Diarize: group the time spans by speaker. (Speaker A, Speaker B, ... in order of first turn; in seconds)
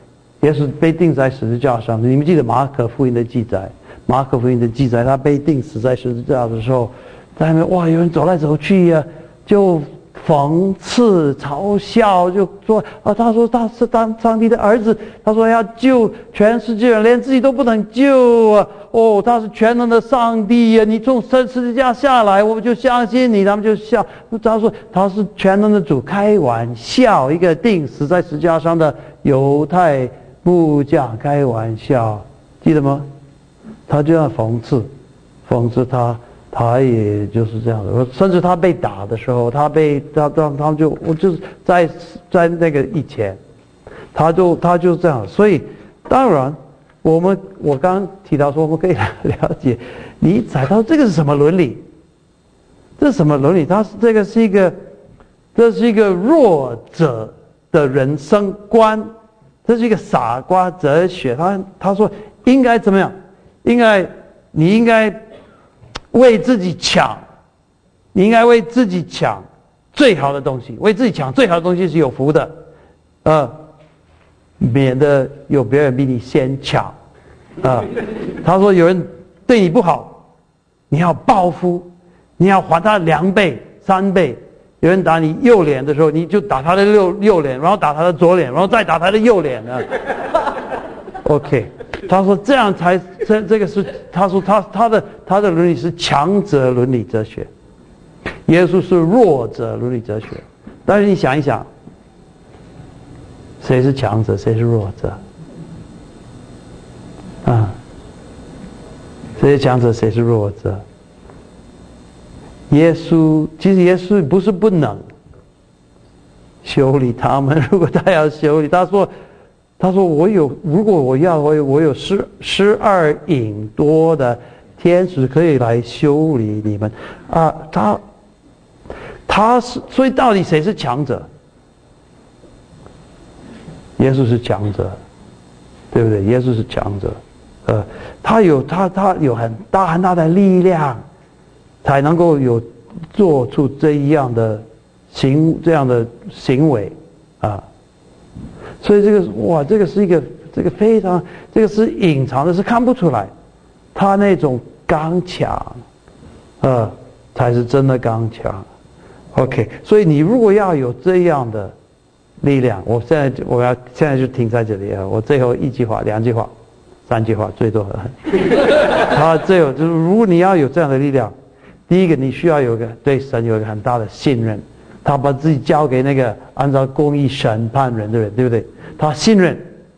Speaker A: 0.4-33.1, 33.9-34.9, 35.5-43.4, 44.1-51.8, 53.0-54.8, 55.5-59.1, 59.6-65.2, 66.1-67.2, 68.1-72.5, 73.2-73.5, 74.6-76.9, 77.6-80.2, 80.9-89.9, 91.2-97.5, 98.5-101.7, 103.6-105.2, 107.4-107.8, 109.4-110.8, 112.7-115.0, 116.6-119.1, 119.8-128.0, 129.3-131.2, 134.0-135.0, 135.9-141.0, 141.8-147.6, 148.8-153.3, 153.9-155.8, 156.6-158.7, 159.3-161.7, 162.4-166.5, 167.1-171.3, 171.9-179.7